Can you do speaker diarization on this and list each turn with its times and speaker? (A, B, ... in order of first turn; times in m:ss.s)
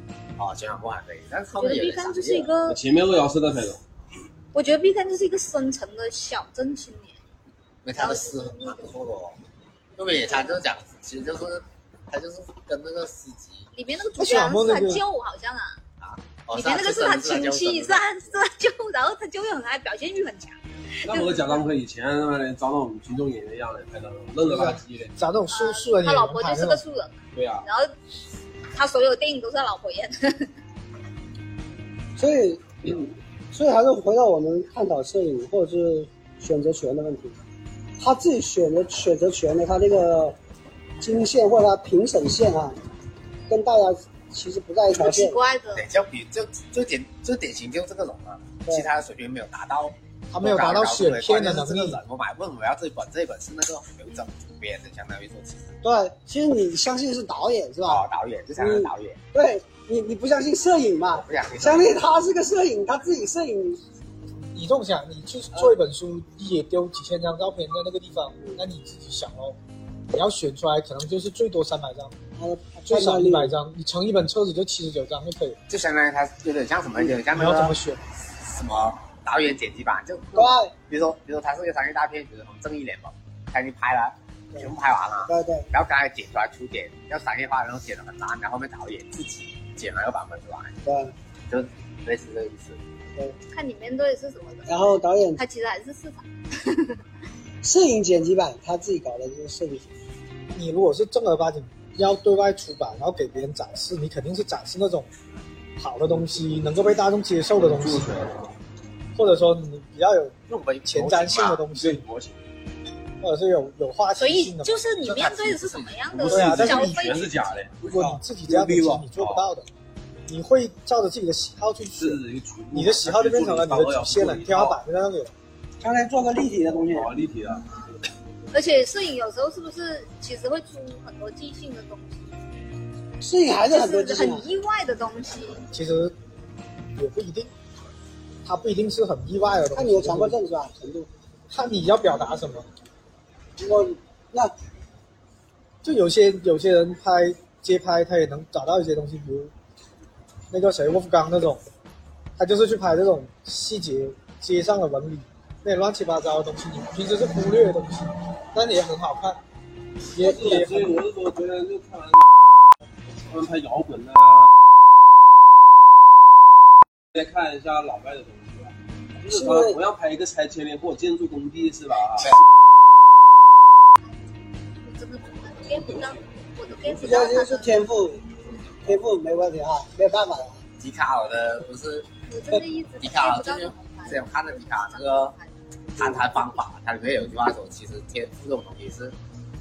0:00.4-0:02.4 A
0:01.5-0:02.8 B
0:02.6-0:03.8 C
0:04.5-0:07.2 B
0:07.8-0:09.4 A
0:07.9-0:08.9 B
0:09.9-0:13.7 A
0:13.7-0:15.8 B
0:14.1-0:15.0 D
0:16.0-0:18.4 A
0:16.5-0:21.7 B
0:21.0-0:25.1 C
0:24.4-0:26.8 D
0:25.5-0:27.9 B
0:27.3-0:27.6 C
0:28.7-0:30.5 B
0:32.2-0:37.4 E
0:38.0-0:40.4 E
0:41.0-0:42.8 E
0:43.5-0:45.4 E
0:44.9-0:46.0 B
0:45.7-0:55.8 A
0:48.6-0:48.9 E
0:50.3-0:52.0 D
0:55.8-0:58.0 E
0:57.8-0:59.2 A
0:58.6-1:03.8 E
1:01.1-1:02.1 A
1:04.5-1:09.6 D
1:10.1-1:12.1 D
1:12.4-1:13.5 E
1:12.8-1:15.6 D
1:15.7-1:30.8 A
1:17.1-1:18.0 D
1:20.3-1:20.8 E
1:25.2-1:25.7 E
1:30.8-1:31.1 E
1:31.5-1:32.8 A
1:33.5-1:37.0 B
1:34.7-1:35.4 E
1:37.6-1:39.9 E
1:40.5-1:45.1 D
1:45.8-1:48.2 D
1:47.5-1:48.4 C
1:49.1-1:52.0 D
1:50.5-1:51.6 A
1:51.7-1:52.4 C
1:53.2-1:54.8 D
1:54.2-1:57.7 B
1:55.0-1:56.0 A
1:56.1-1:59.5 C
1:56.3-1:57.0 D
1:57.8-1:59.7 D
2:00.3-2:02.2 D
2:01.9-2:04.8 C
2:02.7-2:05.3 D
2:05.8-2:07.1 E
2:06.7-2:07.7 C
2:08.5-2:12.3 B
2:13.2-2:14.4 E
2:13.5-2:15.6 B
2:15.7-2:16.1 D
2:17.0-2:17.5 D
2:18.4-2:20.4 D
2:19.7-2:21.1 E
2:21.5-2:22.7 D
2:23.6-2:24.5 E
2:25.8-2:29.5 D
2:30.5-2:31.6 D
2:32.4-2:39.4 D
2:40.1-2:40.9 D
2:40.2-2:42.2 C
2:43.3-2:44.5 C
2:47.1-2:52.3 C
2:54.8-2:57.9 B
2:57.0-2:58.2 E
2:58.8-3:00.6 E
3:00.8-3:02.1 A
3:02.2-3:06.6 B
3:03.0-3:05.4 A
3:06.0-3:06.3 E
3:06.0-3:09.2 A